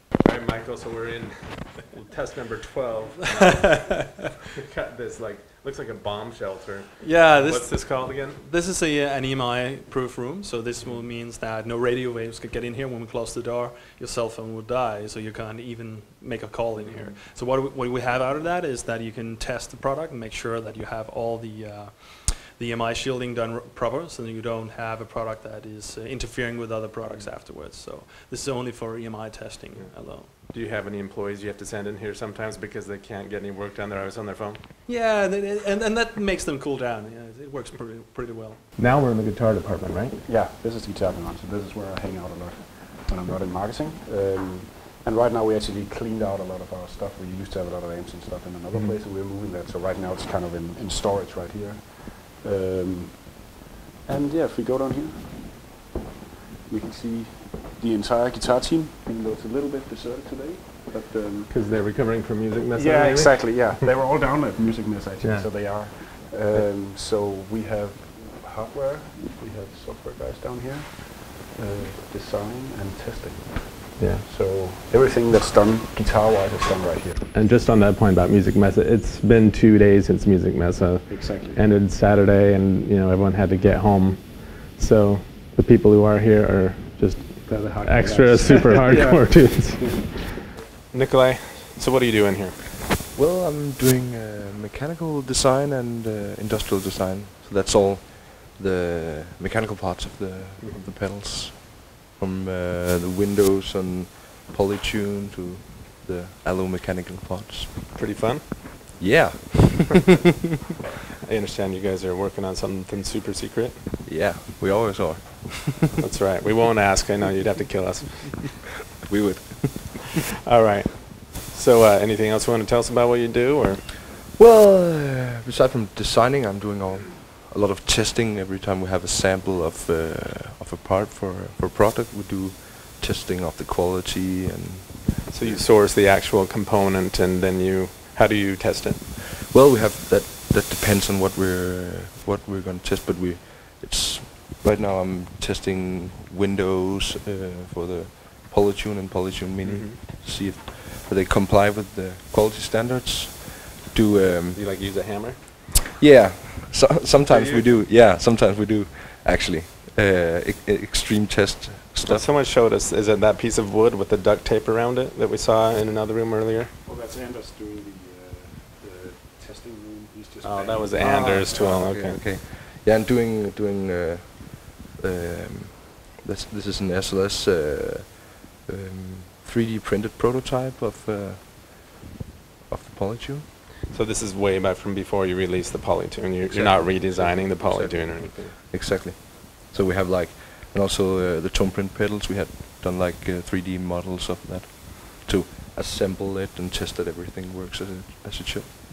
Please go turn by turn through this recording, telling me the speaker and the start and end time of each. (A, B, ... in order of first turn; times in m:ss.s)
0:00.1-0:08.4 A
0:03.2-0:04.3 B
0:07.0-0:30.4 B
0:16.8-0:17.2 A
0:27.0-0:27.3 A
0:29.7-0:34.6 A
0:34.8-0:38.6 B
0:38.8-0:40.2 A
0:40.2-0:53.5 C
0:54.0-0:55.8 C
0:56.7-1:01.5 C
1:01.5-1:03.9 A
1:02.8-1:17.2 C
1:05.2-1:05.8 A
1:14.0-1:14.2 A
1:17.3-1:30.4 A
1:21.1-1:21.6 C
1:27.4-1:30.1 C
1:30.9-1:32.8 A
1:33.1-1:48.2 D
1:40.6-1:40.9 A
1:47.9-1:49.0 A
1:49.0-1:50.0 D
1:51.2-1:53.9 A
1:54.0-1:55.9 D
1:56.0-1:58.6 A
1:59.1-2:00.0 D
2:00.4-2:03.8 A
2:04.3-2:15.6 D
2:15.3-2:19.0 A
2:19.4-2:34.6 D
2:29.6-2:30.0 A
2:34.4-2:35.5 A
2:36.0-2:42.3 D
2:37.2-2:37.7 A
2:42.0-2:46.7 A
2:46.8-2:51.6 C
2:50.4-2:52.2 A
2:51.0-3:02.0 D
3:02.7-3:03.5 D
3:03.9-3:08.5 A
3:06.5-3:18.7 D